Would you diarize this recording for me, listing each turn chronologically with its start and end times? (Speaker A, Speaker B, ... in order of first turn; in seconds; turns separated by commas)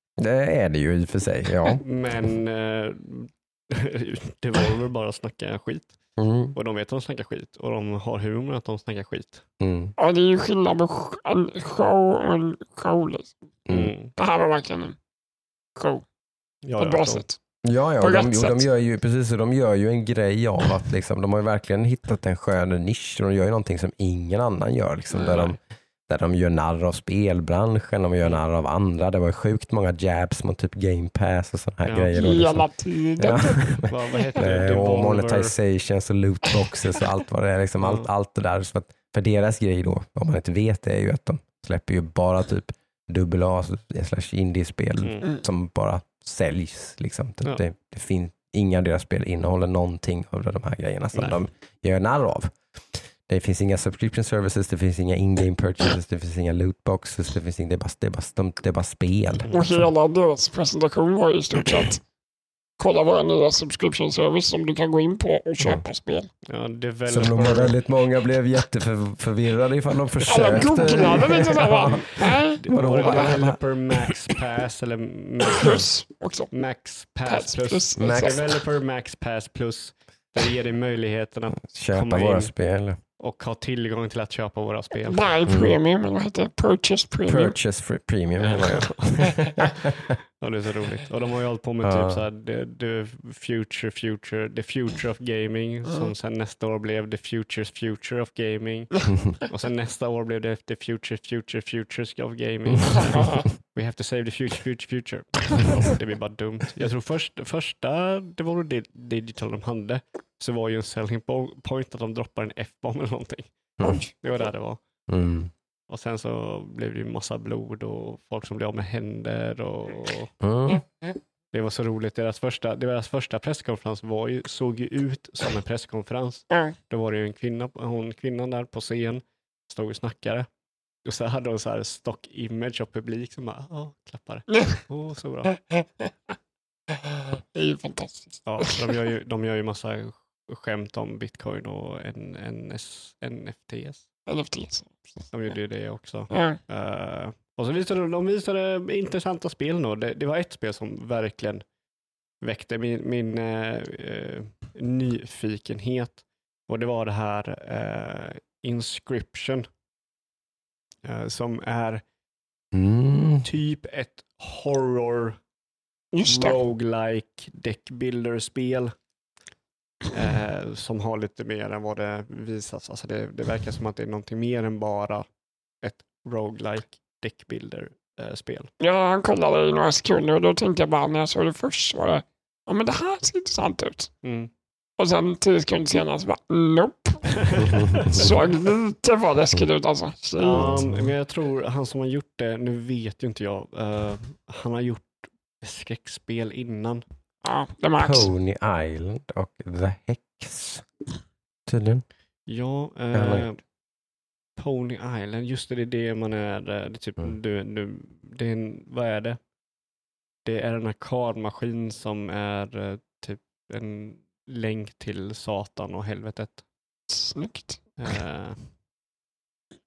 Speaker A: 0.2-1.8, Speaker B: 1.8-6.0, Speaker A: 6.2-6.6, Speaker B: 6.5-9.4, Speaker A: 9.6-9.9, Speaker C: 10.0-13.4, Speaker A: 13.7-13.9, Speaker B: 13.7-14.1, Speaker C: 14.2-15.0, Speaker C: 15.8-16.0, Speaker B: 16.6-17.2, Speaker C: 16.8-17.4, Speaker A: 17.6-52.6, Speaker C: 18.0-18.6, Speaker B: 25.2-25.6, Speaker B: 31.9-32.2, Speaker C: 32.1-34.4, Speaker B: 33.9-35.5, Speaker B: 37.8-38.1, Speaker A: 53.3-59.9, Speaker B: 59.4-59.7, Speaker C: 59.5-62.0, Speaker C: 62.8-66.3, Speaker B: 66.5-67.8, Speaker A: 67.1-74.1, Speaker C: 70.3-73.3, Speaker B: 70.8-71.0, Speaker B: 72.5-75.9, Speaker C: 75.6-76.5, Speaker B: 76.5-82.5, Speaker C: 77.2-78.6, Speaker A: 78.0-78.4, Speaker A: 81.6-83.0, Speaker B: 83.2-85.3, Speaker C: 85.0-87.6, Speaker A: 85.5-85.8, Speaker A: 87.3-90.1, Speaker B: 88.4-89.9, Speaker B: 90.4-114.8, Speaker A: 91.8-92.2, Speaker A: 113.8-114.1, Speaker A: 115.1-115.5, Speaker B: 115.9-120.3, Speaker A: 120.4-120.8, Speaker B: 121.5-130.5, Speaker B: 131.1-135.6, Speaker C: 135.6-136.1, Speaker C: 137.1-139.0, Speaker B: 138.5-144.1, Speaker C: 144.3-145.2, Speaker B: 145.3-151.6, Speaker C: 146.3-146.6, Speaker B: 152.4-159.7, Speaker B: 161.1-162.0, Speaker A: 162.7-163.5, Speaker B: 163.4-165.4, Speaker C: 166.1-166.6, Speaker B: 166.2-168.9, Speaker B: 170.1-175.2, Speaker B: 175.8-178.7, Speaker C: 178.8-184.1, Speaker B: 184.2-184.5, Speaker C: 185.0-190.8, Speaker B: 187.4-188.4, Speaker A: 187.6-188.1, Speaker B: 190.4-197.1, Speaker A: 190.6-191.1, Speaker C: 197.4-198.3, Speaker A: 198.0-200.9, Speaker A: 201.7-202.1, Speaker B: 202.5-203.6, Speaker A: 203.1-203.5, Speaker B: 204.6-209.4, Speaker B: 210.4-216.6, Speaker C: 217.1-218.1, Speaker B: 218.0-218.7